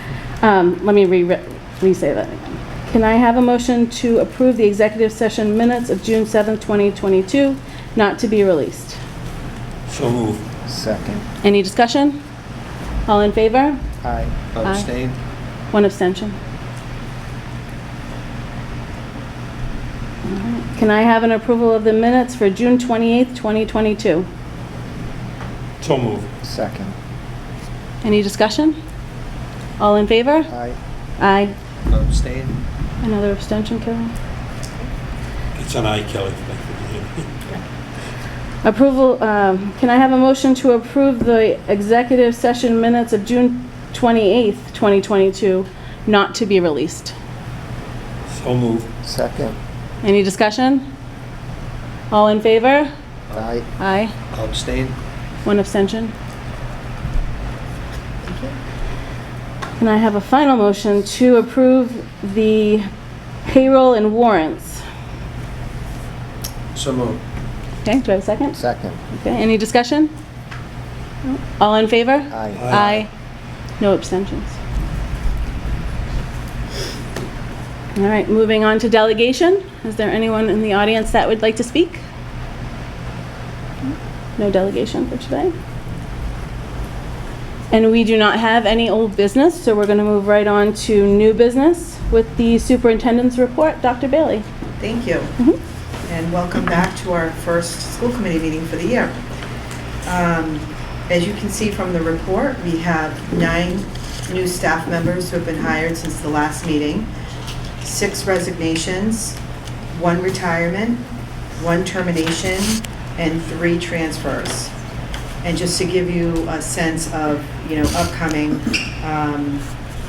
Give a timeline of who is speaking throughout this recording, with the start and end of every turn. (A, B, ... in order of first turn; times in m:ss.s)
0:00.4-0:09.0 A
0:09.9-0:10.4 B
0:10.6-0:11.2 C
0:11.4-0:12.2 A
0:13.1-0:13.8 A
0:14.0-0:14.4 C
0:14.5-0:15.2 D
0:14.6-0:14.9 A
0:15.7-0:16.4 A
0:20.3-0:24.3 A
0:25.8-0:26.3 B
0:26.4-0:27.0 C
0:28.0-0:28.8 A
0:29.8-0:30.5 A
0:30.5-0:30.8 C
0:31.2-0:31.5 A
0:31.9-0:32.6 D
0:33.0-0:34.1 A
0:35.6-0:37.3 B
0:38.6-0:47.2 A
0:48.3-0:48.9 B
0:49.0-0:49.6 C
0:50.0-0:50.9 A
0:52.1-0:52.9 A
0:53.3-0:53.6 C
0:53.8-0:54.1 A
0:54.3-0:55.0 D
0:55.4-0:56.1 A
0:59.8-1:02.9 A
1:03.4-1:04.8 A
1:06.7-1:07.2 D
1:07.8-1:08.6 A
1:08.6-1:09.0 C
1:09.1-1:10.1 A
1:11.2-1:13.1 A
1:12.3-1:12.8 C
1:12.5-1:13.0 B
1:13.8-1:14.6 A
1:18.0-1:22.0 A
1:24.4-1:25.5 A
1:27.7-1:34.4 A
1:34.8-1:35.4 E
1:36.1-1:39.2 E
1:40.0-1:47.1 E
1:47.8-1:49.4 E
1:49.9-1:51.1 E
1:51.6-1:54.7 E
1:55.4-1:59.7 E